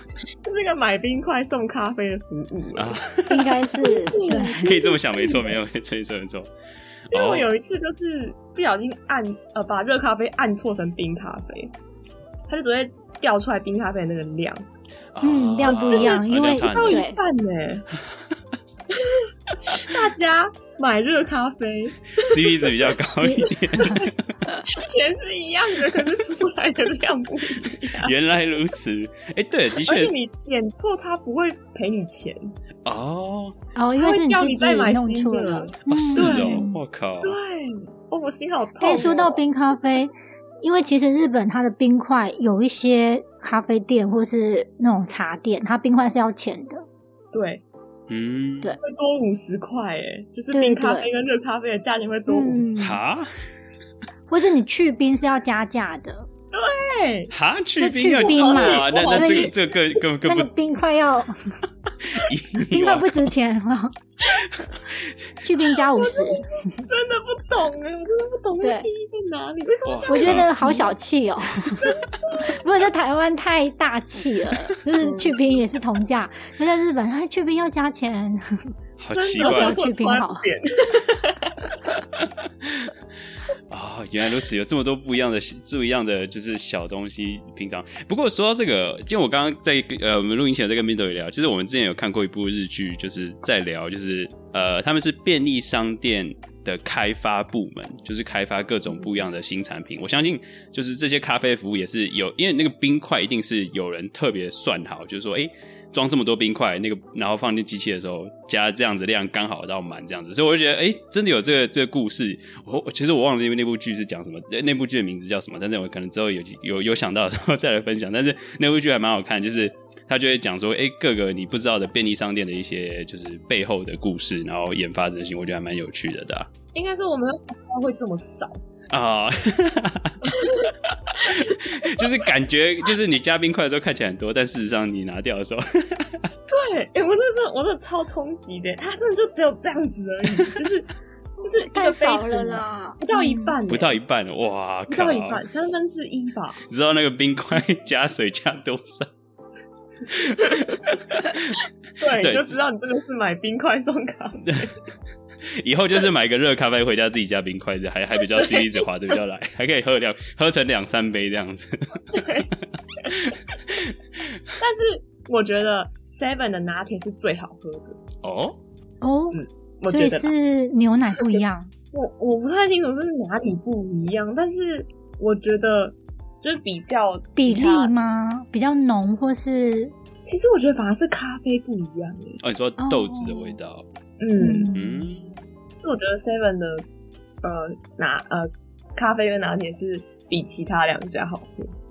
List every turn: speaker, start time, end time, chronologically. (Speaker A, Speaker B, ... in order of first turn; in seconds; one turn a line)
Speaker A: 0.4-3.0
Speaker B: 2.8-3.5
Speaker C: 3.3-4.7
Speaker A: 3.8-5.6
Speaker B: 4.6-6.5
Speaker B: 7.1-7.5
Speaker A: 7.1-11.7
Speaker A: 12.5-14.7
Speaker B: 15.1-17.0
Speaker C: 15.2-17.2
Speaker A: 15.6-17.9
Speaker A: 19.0-22.8
Speaker B: 22.2-24.2
Speaker C: 23.2-23.9
Speaker A: 24.7-28.1
Speaker B: 28.0-30.1
Speaker A: 29.8-32.5
Speaker B: 32.9-33.5
Speaker C: 33.7-36.8
Speaker A: 34.0-36.7
Speaker B: 35.9-37.4
Speaker A: 37.2-39.4
Speaker C: 38.8-46.8
Speaker A: 47.3-47.6
Speaker B: 48.1-48.8
Speaker A: 48.8-52.7
Speaker C: 50.5-51.1
Speaker C: 52.3-53.0
Speaker B: 52.8-53.3
Speaker C: 54.3-56.3
Speaker A: 56.5-57.3
Speaker B: 57.3-60.5
Speaker C: 57.8-59.5
Speaker A: 58.2-59.5
Speaker C: 60.2-61.4
Speaker B: 62.0-63.3
Speaker C: 62.7-63.9
Speaker B: 64.4-65.0
Speaker C: 65.4-66.8
Speaker A: 66.0-70.9
Speaker C: 68.6-68.9
Speaker B: 69.8-70.7
Speaker C: 70.1-71.9
Speaker A: 71.8-72.5
Speaker C: 72.5-78.7
Speaker A: 75.0-75.3
Speaker B: 79.0-79.8
Speaker A: 79.1-81.7
Speaker C: 79.4-80.5
Speaker B: 82.2-82.9
Speaker B: 83.7-126.5
Speaker A: 126.7-128.6
Speaker B: 128.9-130.2
Speaker A: 130.3-130.7
Speaker B: 130.8-136.2
Speaker A: 131.3-132.1
Speaker A: 136.5-140.9
Speaker A: 141.4-144.0
Speaker C: 141.5-143.6
Speaker B: 143.7-145.4
Speaker A: 144.9-146.6
Speaker B: 146.7-149.1
Speaker B: 150.1-151.3
Speaker A: 152.0-154.7
Speaker B: 152.2-152.6
Speaker B: 155.6-162.1
Speaker A: 158.4-158.6
Speaker A: 162.1-162.5
Speaker B: 163.1-163.9
Speaker A: 164.6-168.0
Speaker B: 168.2-168.6
Speaker C: 169.0-171.7
Speaker A: 169.3-170.3
Speaker A: 171.9-177.9
Speaker C: 177.3-179.9
Speaker A: 180.2-182.4
Speaker B: 182.4-183.8
Speaker C: 182.8-183.6
Speaker A: 184.2-184.7
Speaker C: 184.4-185.1
Speaker B: 184.7-185.4
Speaker A: 185.8-186.8
Speaker A: 187.4-191.7